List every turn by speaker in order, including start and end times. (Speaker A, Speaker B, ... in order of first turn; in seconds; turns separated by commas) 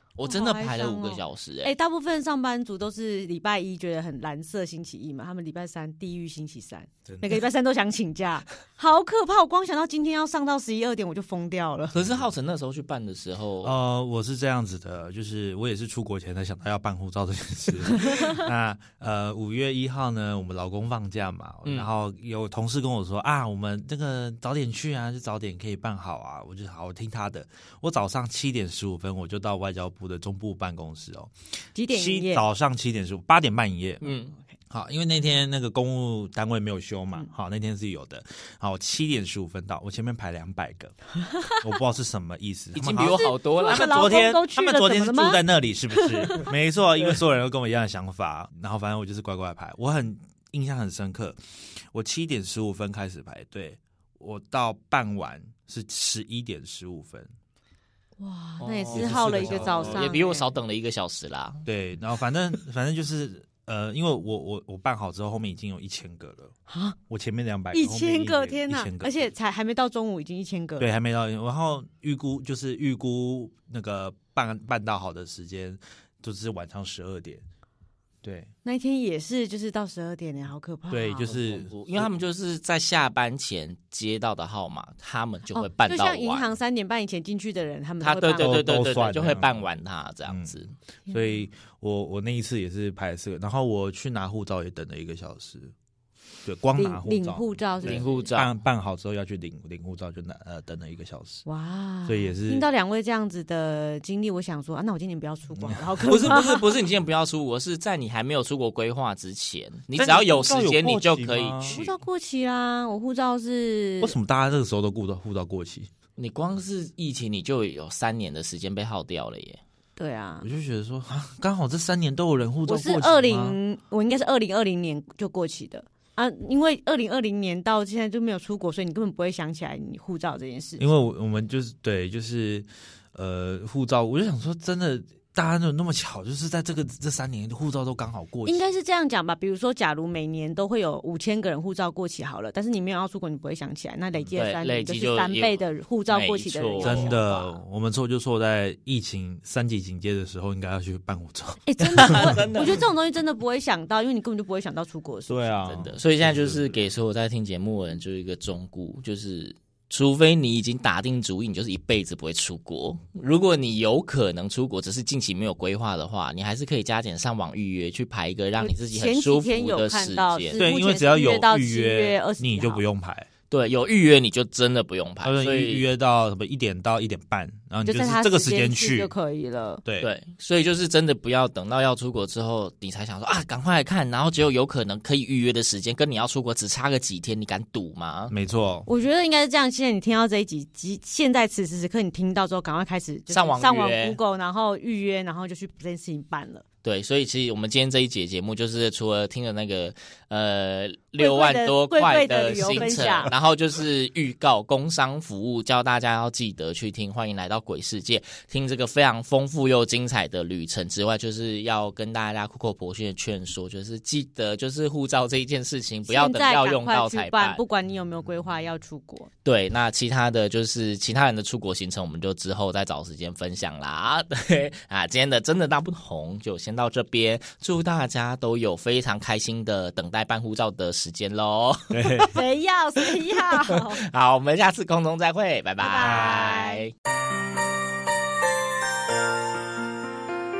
Speaker A: 0.1-1.7, Speaker B: 0.2-11.9, Speaker C: 7.1-7.4, Speaker A: 11.9-13.7, Speaker C: 11.9-12.3, Speaker C: 13.6-31.3, Speaker B: 31.7-32.4, Speaker C: 31.9-34.0, Speaker A: 34.0-34.3, Speaker C: 34.7-40.9, Speaker B: 41.4-41.6, Speaker C: 41.6-51.4, Speaker A: 42.7-44.1, Speaker B: 43.1-46.5, Speaker C: 51.9-57.3, Speaker B: 58.2-60.5, Speaker A: 58.6-61.6, Speaker C: 58.9-60.0, Speaker C: 61.6-66.5, Speaker B: 66.7-67.0, Speaker C: 67.1-69.3, Speaker B: 67.7-70.9, Speaker C: 70.8-77.4, Speaker C: 78.2-78.5, Speaker B: 78.6-81.3, Speaker C: 80.9-82.2, Speaker A: 81.2-86.5, Speaker B: 85.5-88.7, Speaker A: 88.0-90.7, Speaker C: 88.4-89.6, Speaker C: 90.2-90.6, Speaker B: 91.1-91.4, Speaker C: 91.1-95.7, Speaker C: 96.4-101.4, Speaker B: 96.8-98.3, Speaker A: 97.8-98.5, Speaker B: 101.4-106.7, Speaker C: 102.0-102.7, Speaker C: 105.5-106.4, Speaker A: 106.1-112.0, Speaker C: 109.9-111.8, Speaker B: 111.7-114.2, Speaker C: 114.0-115.9, Speaker A: 116.2-119.6, Speaker B: 120.0-120.5, Speaker C: 120.4-123.6, Speaker B: 122.7-130.8, Speaker C: 130.8-138.7, Speaker B: 138.4-147.6, Speaker A: 144.3-147.1, Speaker C: 146.8-152.5, Speaker B: 151.6-155.5, Speaker A: 152.0-152.8, Speaker C: 155.3-156.8, Speaker A: 155.7-170.6, Speaker B: 168.6-172.8, Speaker C: 170.5-173.3, Speaker A: 173.5-175.9, Speaker C: 175.2-179.1, Speaker B: 177.8-179.8, Speaker C: 179.8-180.1, Speaker A: 180.0-188.3, Speaker C: 188.3-188.9, Speaker B: 188.8-196.6, Speaker A: 193.3-194.2, Speaker A: 196.8-217.6, Speaker B: 201.2-203.3, Speaker C: 202.7-203.2, Speaker B: 216.1-219.3, Speaker A: 219.4-232.3, Speaker C: 231.9-232.3, Speaker B: 232.2-234.0, Speaker A: 233.0-236.9, Speaker B: 235.8-236.8, Speaker C: 236.0-236.3